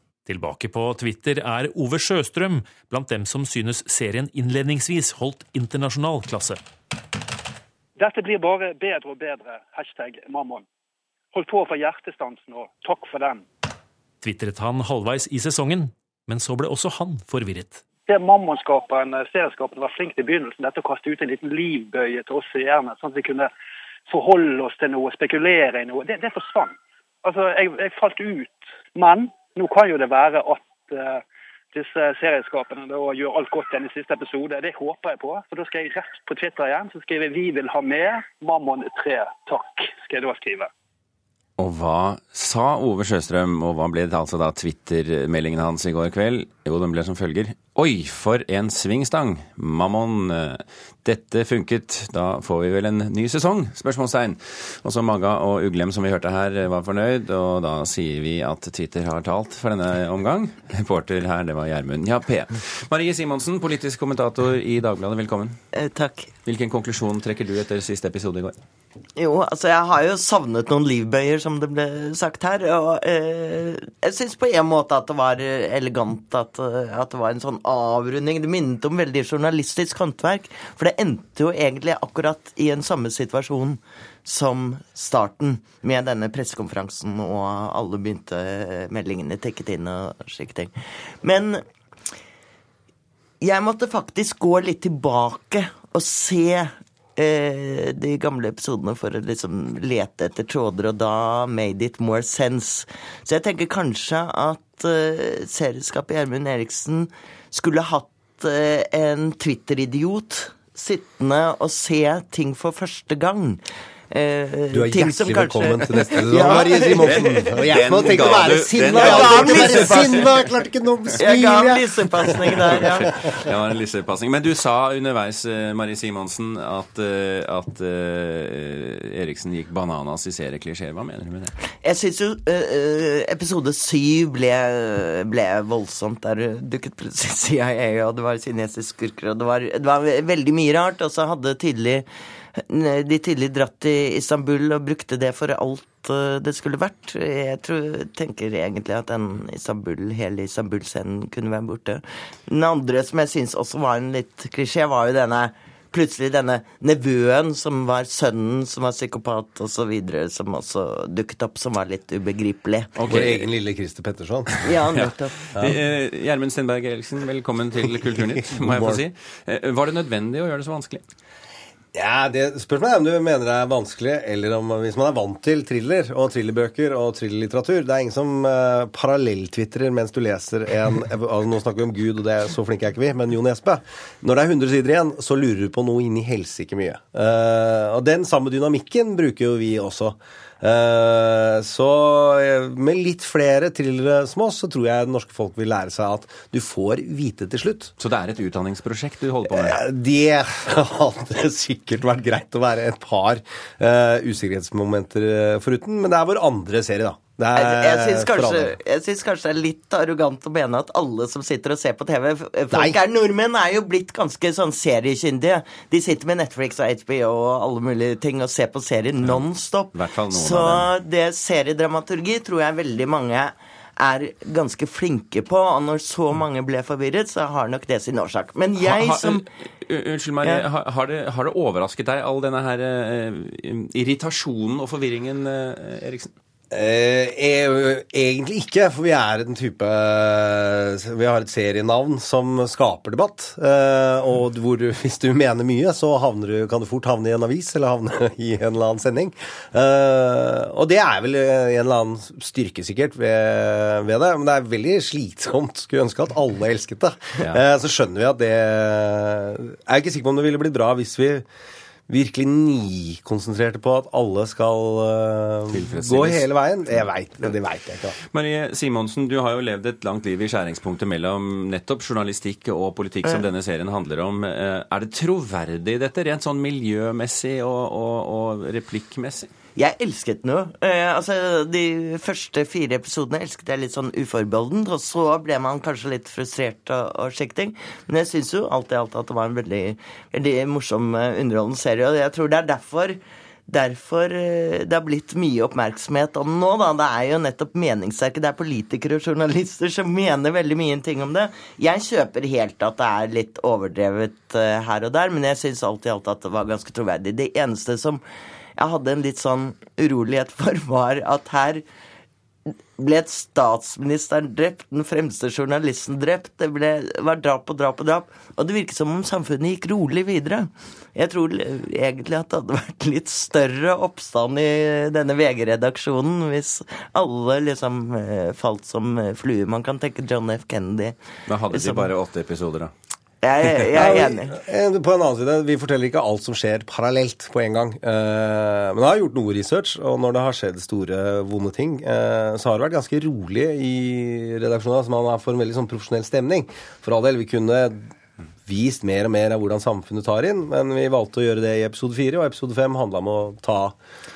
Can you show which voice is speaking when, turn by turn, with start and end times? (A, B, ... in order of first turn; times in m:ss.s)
0:00.2-0:06.6 A
0:08.0-0:10.6 B
0:11.3-0:13.4 B
0:14.2-0:17.8 A
0:18.0-0:23.5 B
0:24.1-0:40.7 B
0:41.6-1:05.6 C
1:05.7-1:06.3 D
1:06.4-1:08.5 C
1:09.2-1:31.6 D
1:33.4-2:00.2 D
1:54.7-2:03.3 E
1:56.3-2:00.3 C
2:01.2-2:03.2 D
2:03.4-2:11.5 C
2:11.8-2:42.9 D
2:43.0-2:43.4 C
2:43.1-2:44.5 E
2:44.6-2:45.5 D
2:44.9-2:51.0 C
2:48.5-2:49.0 E
2:51.9-3:17.9 E
3:18.0-3:19.8 C
3:19.5-3:28.8 E
3:27.6-3:49.4 D
3:32.7-3:33.0 E
3:39.9-3:40.9 C
3:48.8-3:56.3 C
3:56.7-4:21.4 E
4:22.1-4:28.2 E
4:25.7-4:26.4 C
4:28.3-4:39.5 C
4:39.8-5:08.2 D
5:08.8-5:11.8 D
5:13.0-5:31.2 D
5:31.5-5:32.9 C
5:31.7-5:32.1 D
5:33.4-5:34.6 D
5:33.9-5:48.1 E
5:48.6-5:54.0 E